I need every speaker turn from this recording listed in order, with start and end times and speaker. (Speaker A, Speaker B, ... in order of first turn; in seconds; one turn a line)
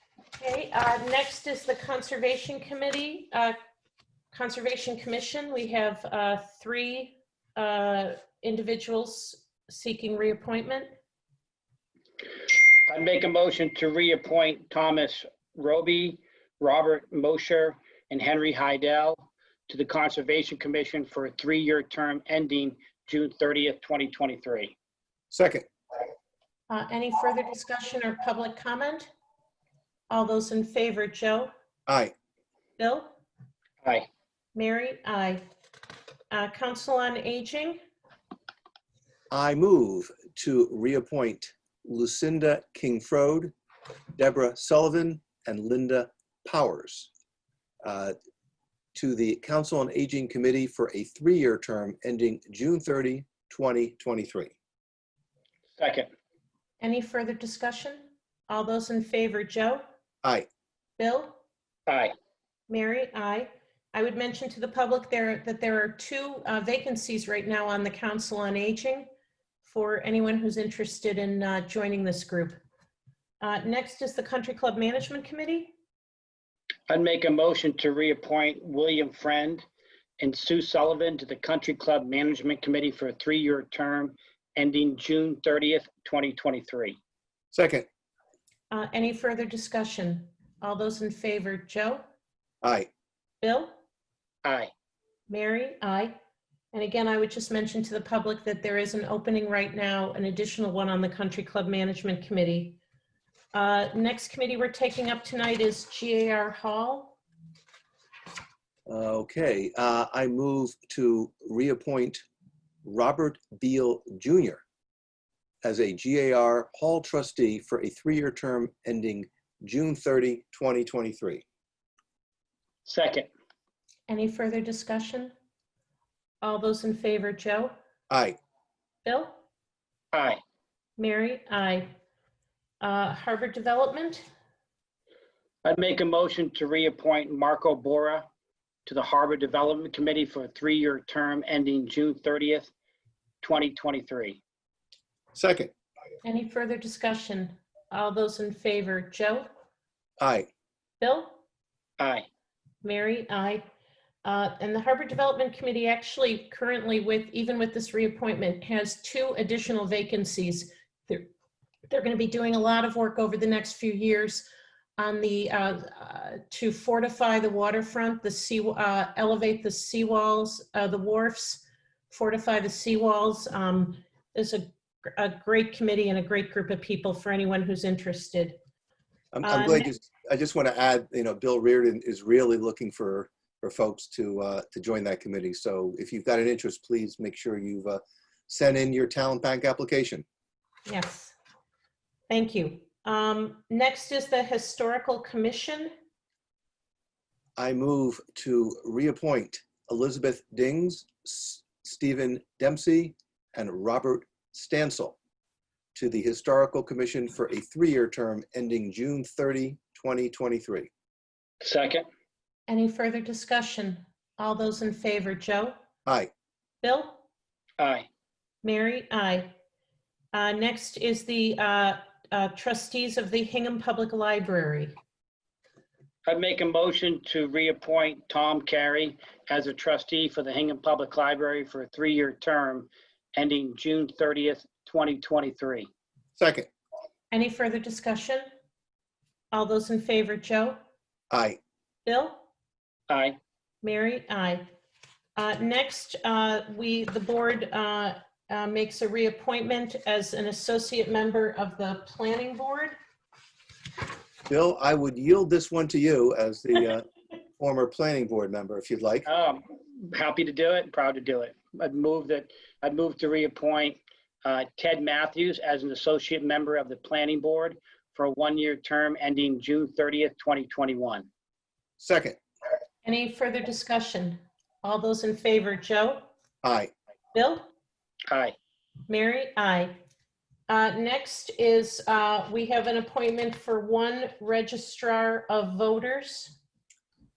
Speaker A: 0.4-3.5
Speaker A: 4.3-10.9
Speaker B: 12.9-24.7
Speaker C: 25.3-25.6
Speaker A: 26.7-29.1
Speaker A: 30.1-31.5
Speaker C: 31.9-32.1
Speaker A: 32.8-33.1
Speaker A: 34.5-35.4
Speaker A: 36.3-37.8
Speaker C: 39.3-43.5
Speaker C: 44.1-47.1
Speaker C: 47.8-48.1
Speaker C: 48.9-54.5
Speaker B: 55.8-56.1
Speaker A: 56.8-59.8
Speaker A: 61.0-61.4
Speaker B: 61.9-62.1
Speaker A: 62.7-69.1
Speaker A: 69.6-72.6
Speaker A: 73.4-75.7
Speaker B: 76.9-79.6
Speaker B: 80.2-87.0
Speaker C: 87.5-87.8
Speaker A: 88.7-92.0
Speaker C: 92.6-92.9
Speaker A: 93.4-93.7
Speaker B: 94.4-94.7
Speaker A: 95.3-96.2
Speaker A: 96.7-102.8
Speaker A: 103.5-107.2
Speaker C: 108.9-112.2
Speaker C: 112.8-114.6
Speaker C: 115.6-121.4
Speaker B: 122.8-123.3
Speaker A: 124.1-125.3
Speaker A: 126.4-127.7
Speaker C: 128.1-128.4
Speaker A: 129.0-129.3
Speaker B: 130.1-130.4
Speaker A: 131.0-131.9
Speaker A: 132.8-134.2
Speaker B: 135.6-138.2
Speaker B: 138.8-142.7
Speaker B: 143.4-144.4
Speaker C: 145.3-145.7
Speaker A: 146.2-149.5
Speaker C: 150.2-150.5
Speaker A: 151.0-151.4
Speaker B: 152.0-152.2
Speaker A: 152.8-153.6
Speaker A: 154.2-161.3
Speaker A: 161.9-178.6
Speaker C: 179.3-190.2
Speaker A: 179.4-179.9
Speaker A: 190.8-191.3
Speaker A: 192.3-195.9
Speaker C: 197.6-205.2
Speaker C: 205.9-210.9
Speaker B: 211.6-212.1
Speaker A: 212.7-215.7
Speaker A: 216.8-217.2
Speaker B: 217.8-218.1
Speaker A: 218.6-219.5
Speaker A: 220.3-224.9
Speaker B: 226.3-235.9
Speaker C: 236.4-236.7
Speaker A: 237.3-238.4
Speaker A: 239.5-240.8
Speaker C: 241.3-241.6
Speaker A: 242.1-242.4
Speaker B: 243.1-243.4
Speaker A: 243.8-244.7
Speaker A: 245.3-252.9
Speaker C: 254.5-257.0
Speaker C: 257.6-259.2
Speaker B: 259.2-271.3
Speaker C: 272.0-272.4
Speaker A: 273.0-276.3
Speaker C: 276.6-276.9
Speaker A: 277.3-277.7
Speaker B: 278.3-278.5
Speaker A: 279.1-279.9
Speaker A: 280.7-286.6